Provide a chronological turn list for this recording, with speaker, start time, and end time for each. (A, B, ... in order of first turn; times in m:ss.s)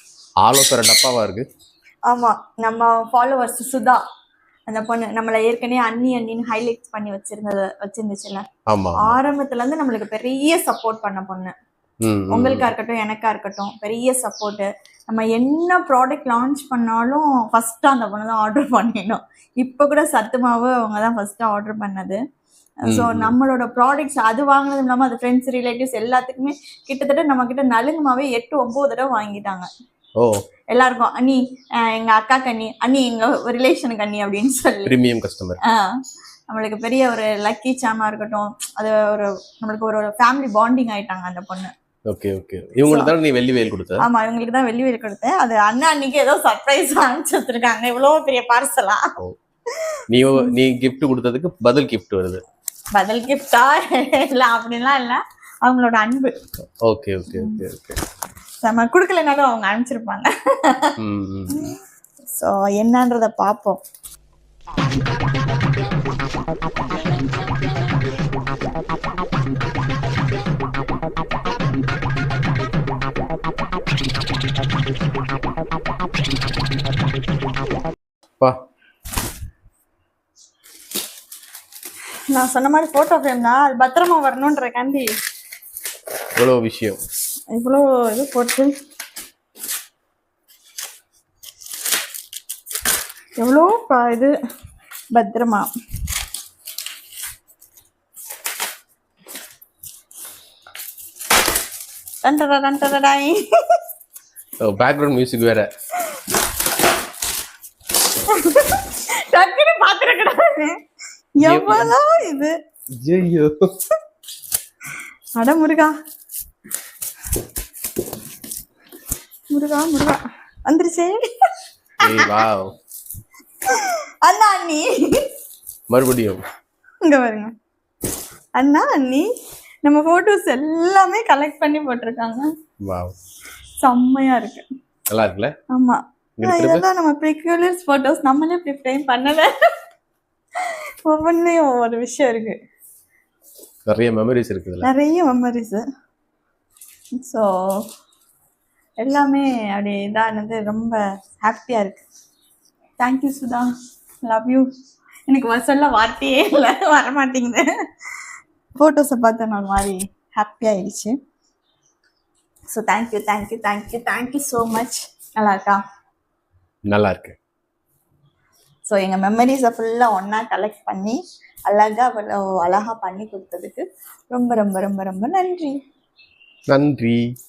0:00.4-0:01.4 A
0:02.1-0:04.0 B
0:04.7-0:08.4 B
0:08.7-0:09.2 A
0:09.0-0:11.5 B
0:12.0-0:12.7 A
0:12.3-0:22.2 B
0:22.9-0:23.4 A
0:22.9-0:29.7 B
0:30.7-0:31.4 B
0:31.9-0:34.9 B
0:34.8-0:35.6 A
0:36.5-0:41.7 B
0:42.1-0:44.0 A
0:42.9-0:43.1 B
0:44.0-0:49.2 B
0:50.1-0:52.4 A
0:53.0-0:56.3 B
0:56.9-0:58.0 A
0:57.3-0:57.6 B
0:58.6-1:01.0 B
1:01.0-1:01.7 A
1:01.5-1:01.8 B
1:02.3-1:03.8 B
1:22.3-1:25.1 B
1:26.4-1:27.0 A
1:27.6-1:28.7 B
1:33.4-1:34.3 B
1:35.1-1:35.7 B
1:42.2-1:43.8 B
1:44.6-1:45.7 A
1:48.3-1:50.8 B
1:51.4-1:52.5 B
1:51.4-1:51.9 A
1:53.0-1:53.5 A
1:55.4-1:55.9 B
1:59.5-2:01.2 B
2:02.0-2:02.4 B
2:02.0-2:02.7 A
2:03.7-2:05.3 B
2:05.9-2:06.4 A
2:07.0-2:07.5 B
2:08.6-2:09.3 B
2:09.8-2:12.4 B
2:12.8-2:13.2 A
2:13.8-2:14.7 B
2:15.1-2:15.5 A
2:15.7-2:19.5 B
2:16.4-2:16.8 A
2:20.6-2:22.6 B
2:23.9-2:24.9 A
2:24.8-2:25.8 B
2:27.2-2:27.8 B
2:29.0-2:32.0 B
2:33.0-2:33.7 B
2:34.3-2:34.7 B
2:35.3-2:37.6 B
2:38.8-2:41.1 B
2:42.7-2:45.8 B
2:46.9-2:47.4 A
2:48.9-2:55.8 B
2:56.7-2:57.2 A